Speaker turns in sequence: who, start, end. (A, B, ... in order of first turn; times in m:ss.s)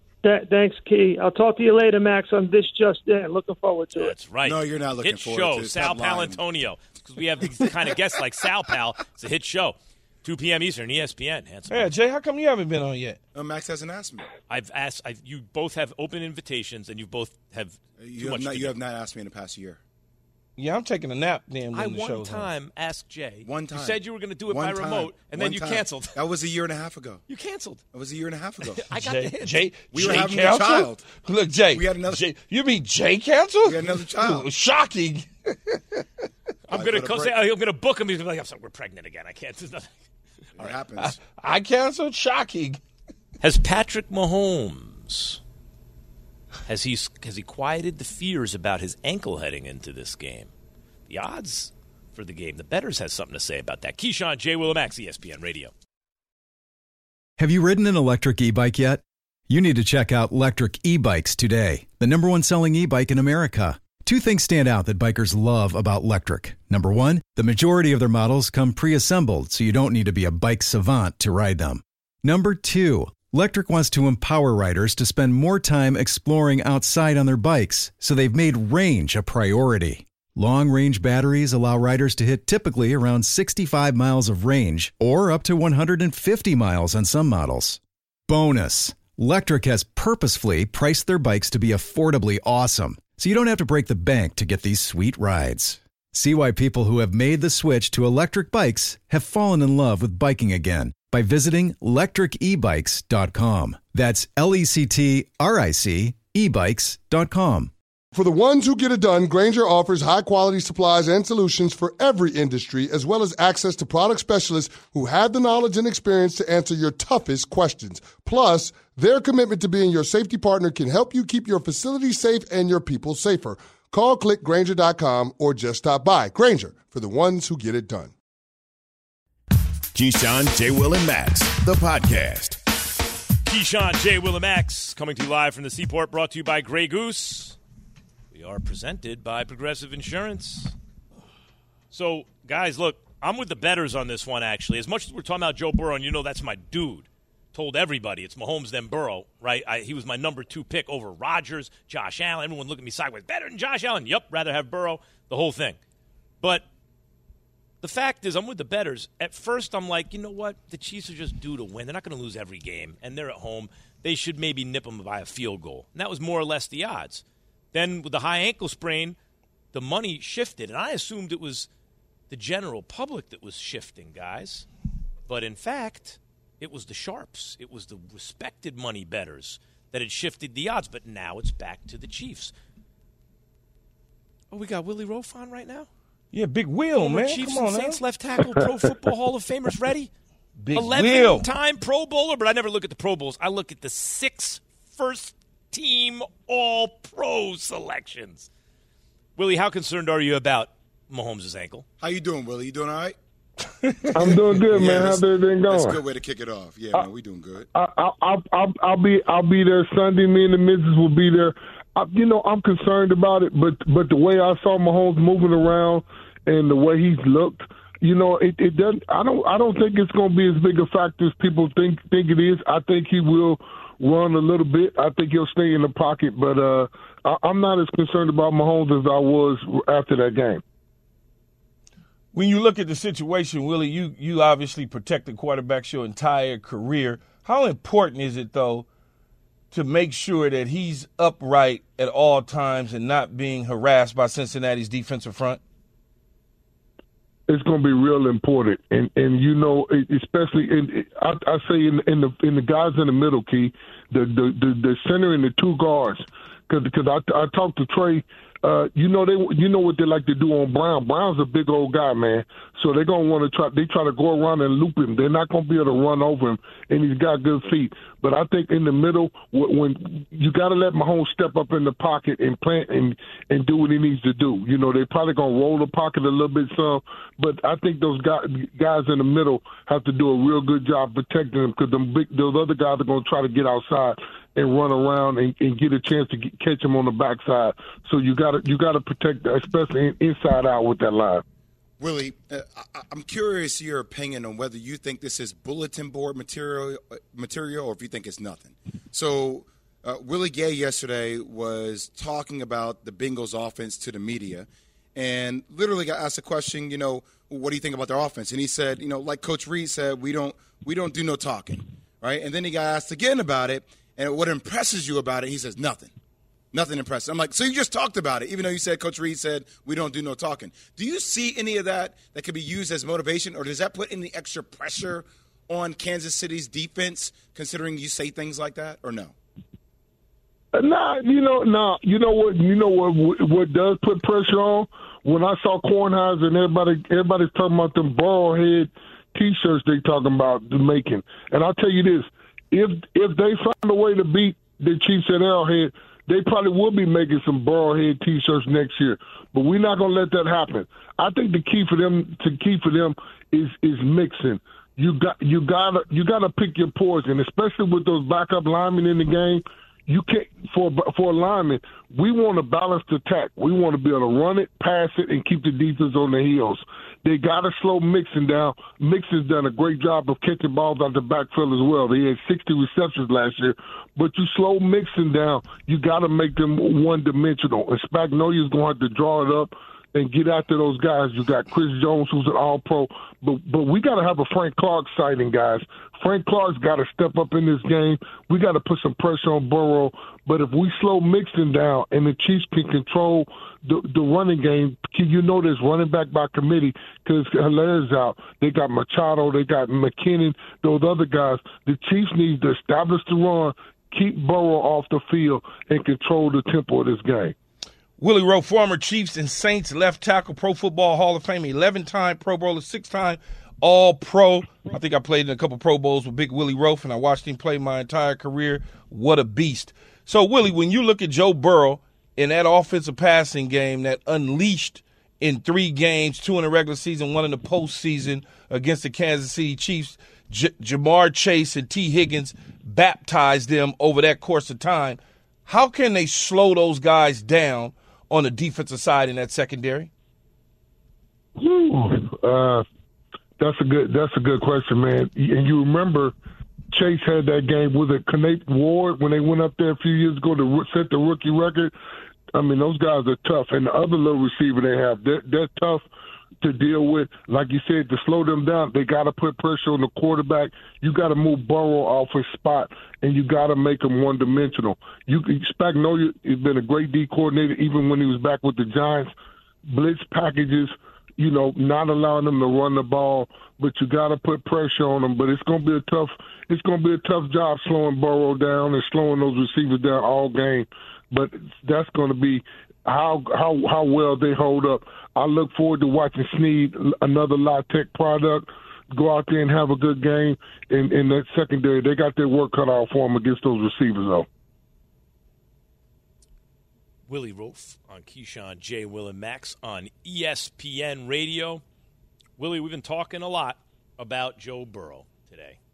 0:00.2-0:04.1 A
0:04.0-0:11.9 B
0:04.4-0:06.4 C
0:11.7-0:13.2 D
0:13.4-0:14.3 C
0:14.5-0:18.8 B
0:18.0-0:19.8 C
0:20.6-0:22.5 D
0:21.7-0:26.2 B
0:23.4-0:27.2 C
0:27.3-0:27.8 B
0:27.9-0:28.9 C
0:28.6-0:30.6 B
0:29.0-0:36.0 D
0:29.9-0:31.1 C
0:31.7-0:32.2 C
0:33.6-0:34.5 C
0:36.7-0:39.9 B
0:36.7-0:37.4 C
0:40.6-0:41.2 C
0:41.0-0:42.8 D
0:43.4-0:45.4 B
0:46.7-0:50.5 B
0:51.1-0:55.7 B
0:57.4-1:47.7 E
1:48.1-2:08.1 F
2:09.9-2:12.6 G
2:13.5-2:17.6 B
2:18.3-2:20.7 B
2:21.9-2:35.8 B
2:37.8-2:49.2 B
2:49.7-2:51.7 B
2:52.3-2:54.7 B
2:55.3-3:02.5 B
3:04.5-3:05.9 B
3:06.3-3:08.0 D
3:07.0-3:10.1 B
3:10.6-3:11.5 D
3:10.7-3:18.5 B
3:19.4-3:21.8 B
3:22.0-3:23.2 C
3:23.8-3:24.1 D
3:24.1-3:26.0 H
3:24.2-3:27.7 C
3:27.7-3:50.6 H
3:52.3-3:58.9 D
3:59.7-4:05.6 D
4:07.5-4:51.4 H
4:52.0-5:16.1 C
5:16.7-5:29.4 C
5:30.8-6:47.5 H
6:48.2-7:20.1 D
7:21.6-7:22.8 H
7:23.6-7:26.3 H
7:26.9-7:31.9 H
7:32.5-7:36.0 H
7:36.6-7:49.3 H
7:49.9-8:14.5 H
8:17.3-8:21.8 B
8:22.6-8:25.8 B